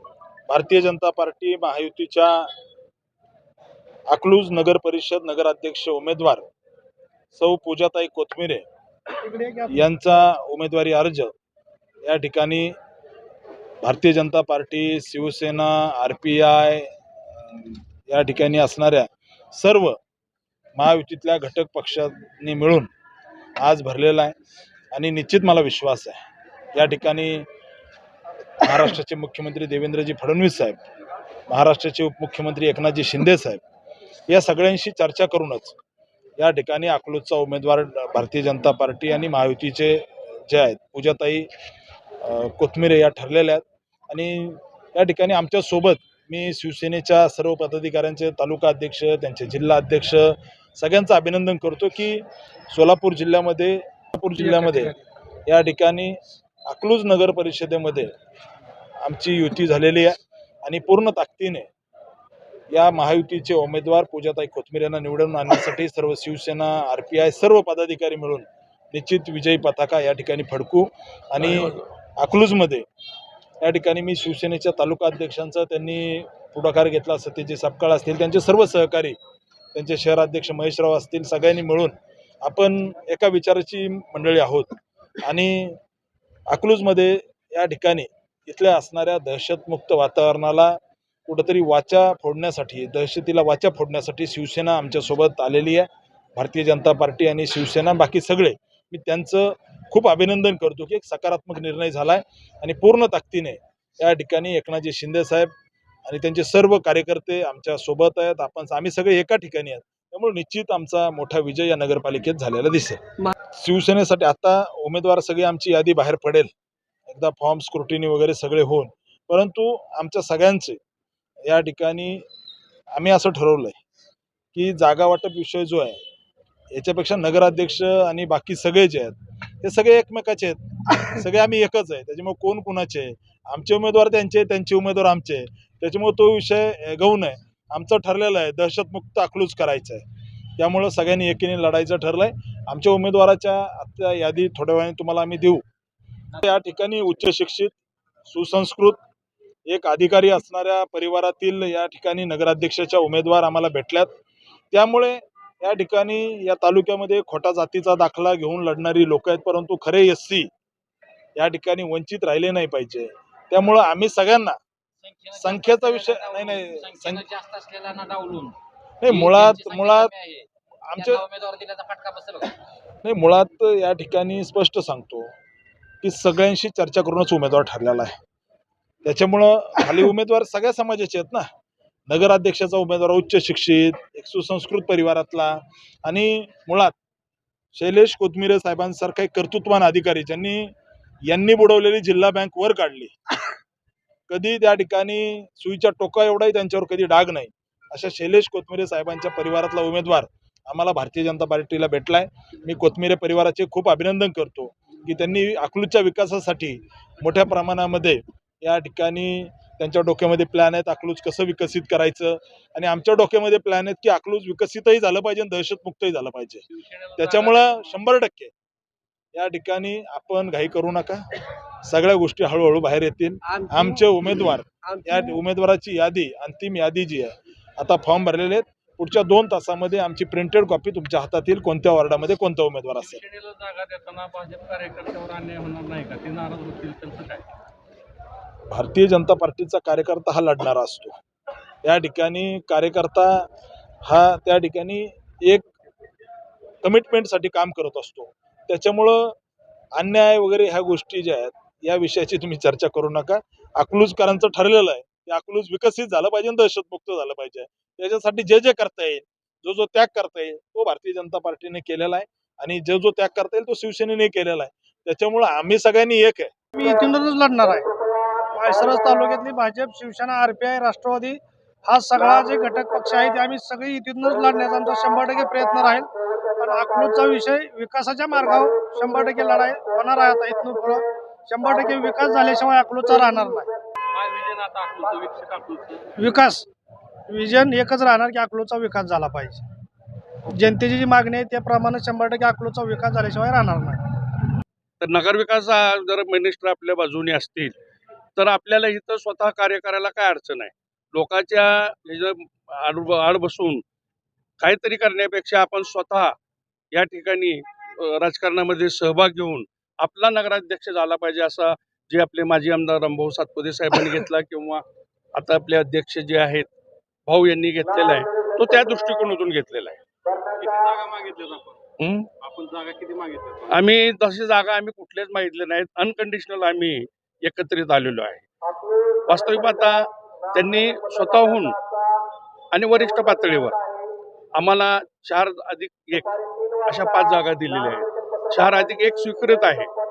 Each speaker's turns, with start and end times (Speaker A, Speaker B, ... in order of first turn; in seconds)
Speaker A: 0.5-2.5, 4.1-6.5, 7.3-8.6, 9.7-11.3, 12.0-12.8, 13.8-20.0, 20.8-22.9, 23.6-24.4, 24.9-26.2, 26.7-27.4, 28.6-30.8, 31.5-33.6, 34.3-35.8, 36.4-41.5, 42.2-55.0, 55.5-58.1, 59.0-61.7, 62.7-72.8, 73.6-79.2, 79.7-85.8, 86.5-105.5, 106.0-116.5, 117.1-120.8, 121.5-122.2, 122.9-123.8, 124.5-126.0, 126.7-140.0, 140.6-145.6, 146.3-147.8, 148.3-149.0, 149.7-154.1, 154.7-160.5, 161.3-164.6, 165.3-167.2, 169.0-170.1, 170.9-171.2, 173.0-175.3, 176.0-178.2, 179.0-181.5, 182.1-186.9, 187.7-190.7, 191.2-193.1, 194.3-218.5, 219.3-221.3, 221.8-233.2, 238.7-241.2, 241.8-243.5, 244.0-245.7, 246.8-249.3, 249.9-266.5
Speaker B: 9.2-9.8, 266.8-267.9, 268.5-283.7, 286.2-286.7, 287.3-289.7, 290.4-294.2
Speaker C: 165.0-168.6, 169.1-172.5
Speaker D: 216.7-217.8, 233.1-237.4, 284.1-286.1, 320.6-321.8, 322.4-323.6
Speaker E: 295.0-297.8, 298.4-303.8, 304.6-306.3, 306.9-316.7, 317.2-320.0, 322.0-322.3, 323.7-328.5, 329.2-331.8, 332.7-333.8, 334.5-339.9